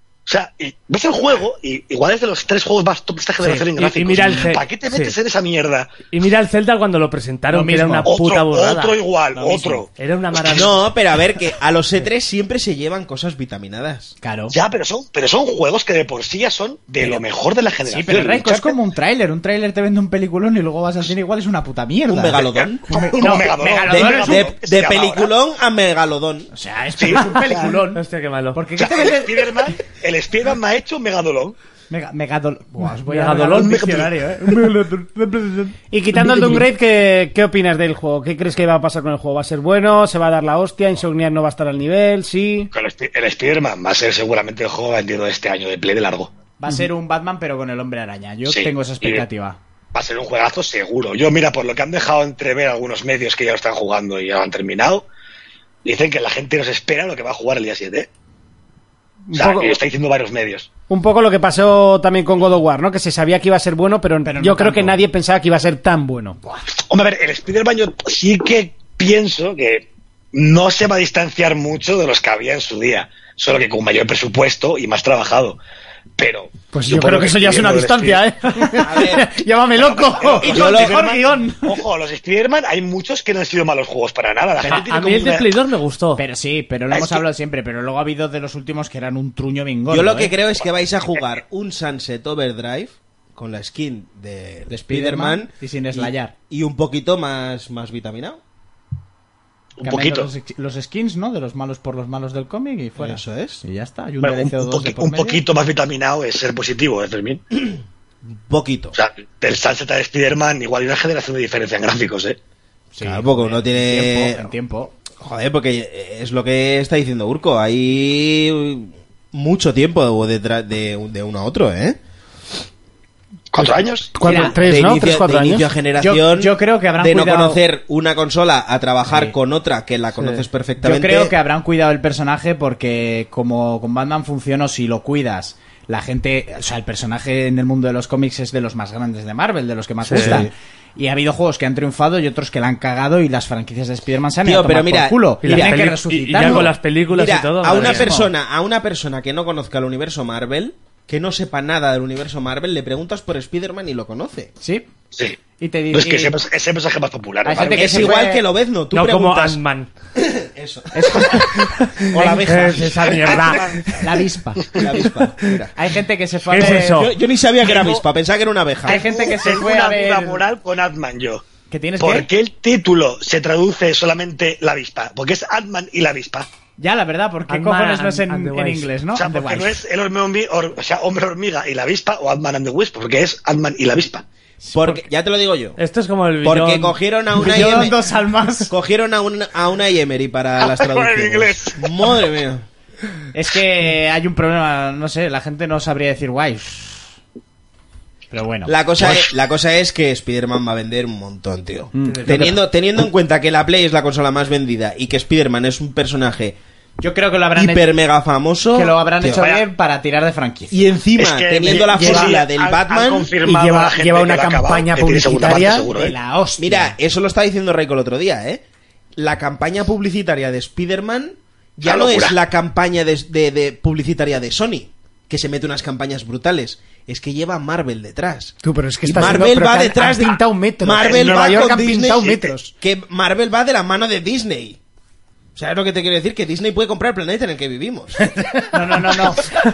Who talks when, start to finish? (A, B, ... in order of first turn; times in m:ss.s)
0:00.2-0:05.9 A
0:03.4-0:05.2 B
0:06.1-0:10.8 B
0:07.5-0:08.1 C
0:08.0-0:09.9 A
0:10.5-0:14.1 D
0:14.2-0:14.6 C
0:14.5-0:18.8 A
0:17.8-0:24.5 C
0:22.1-0:26.5 D
0:22.5-0:25.3 A
0:26.5-0:28.0 C
0:27.0-0:27.8 A
0:27.9-0:28.6 B
0:28.5-0:29.7 C
0:28.8-0:31.5 A
0:31.9-0:36.7 C
0:33.1-0:33.8 B
0:33.6-0:34.1 A
0:35.9-0:42.7 E
0:42.7-0:46.3 A
0:46.6-0:49.6 C
0:48.5-0:49.2 A
0:49.9-0:55.0 A
0:55.8-0:58.1 A
0:59.3-0:59.8 E
0:59.3-1:00.7 A
1:00.9-1:06.4 E
1:04.2-1:05.0 C
1:06.9-1:15.6 A
1:16.2-1:18.2 A
1:16.7-1:20.5 E
1:18.8-1:19.3 D
1:19.8-1:25.5 A
1:20.4-1:21.8 C
1:20.4-1:21.0 D
1:24.7-1:26.2 B
1:26.2-1:30.4 C
1:26.9-1:27.2 A
1:29.9-1:38.4 D
1:34.7-1:36.3 C
1:39.8-1:40.3 A
1:39.8-1:45.4 C
1:43.0-1:43.6 D
1:44.2-1:47.4 A
1:47.5-1:48.9 D
1:48.9-1:52.4 A
1:52.9-1:54.9 C
1:53.0-1:54.5 D
1:55.2-2:02.0 D
2:03.5-2:04.3 A
2:04.1-2:05.6 E
2:04.2-2:04.6 C
2:04.5-2:11.3 D
2:06.0-2:07.6 C
2:09.1-2:09.3 C
2:10.8-2:26.7 C
2:20.0-2:20.4 B
2:20.1-2:20.5 D
2:24.4-2:25.8 D
2:25.4-2:28.1 B
2:26.4-2:34.5 D
2:27.7-2:28.3 C
2:34.6-2:34.9 C
2:35.6-2:36.4 C
2:35.9-2:38.1 A
2:37.4-2:38.4 C
2:37.6-2:39.6 D
2:38.9-2:39.9 B
2:40.1-2:41.5 D
2:40.9-2:42.9 C
2:41.8-2:43.9 B
2:42.1-2:44.0 D
2:44.0-2:44.8 C
2:44.7-2:45.7 D
2:45.7-2:47.1 C
2:46.5-2:47.1 B
2:46.6-2:49.3 D
2:48.8-2:50.4 C
2:48.9-2:51.4 A
2:51.7-2:52.3 C
2:52.0-2:56.5 A
2:56.8-2:59.8 C
2:57.5-2:58.9 B
2:59.1-3:04.2 A
3:04.6-3:05.0 C
3:04.7-3:05.8 D
3:05.8-3:07.0 B
3:06.4-3:08.0 D
3:07.4-3:08.7 C
3:08.7-3:12.6 D
3:10.6-3:11.9 A
3:13.3-3:17.1 C
3:18.3-3:18.8 C
3:18.7-3:26.6 D
3:21.9-3:22.6 C
3:27.0-3:27.9 C
3:27.6-3:29.4 D
3:28.7-3:30.8 C
3:29.3-3:29.6 A
3:30.7-3:33.3 D
3:31.2-3:36.1 A
3:31.7-3:32.3 E
3:33.4-3:35.9 E
3:35.8-3:37.0 C
3:36.6-3:38.6 D
3:39.2-3:54.8 D
3:41.8-3:42.4 A
3:48.6-3:52.7 E
3:51.0-3:52.5 A
3:55.6-3:58.3 D
3:58.7-3:59.6 C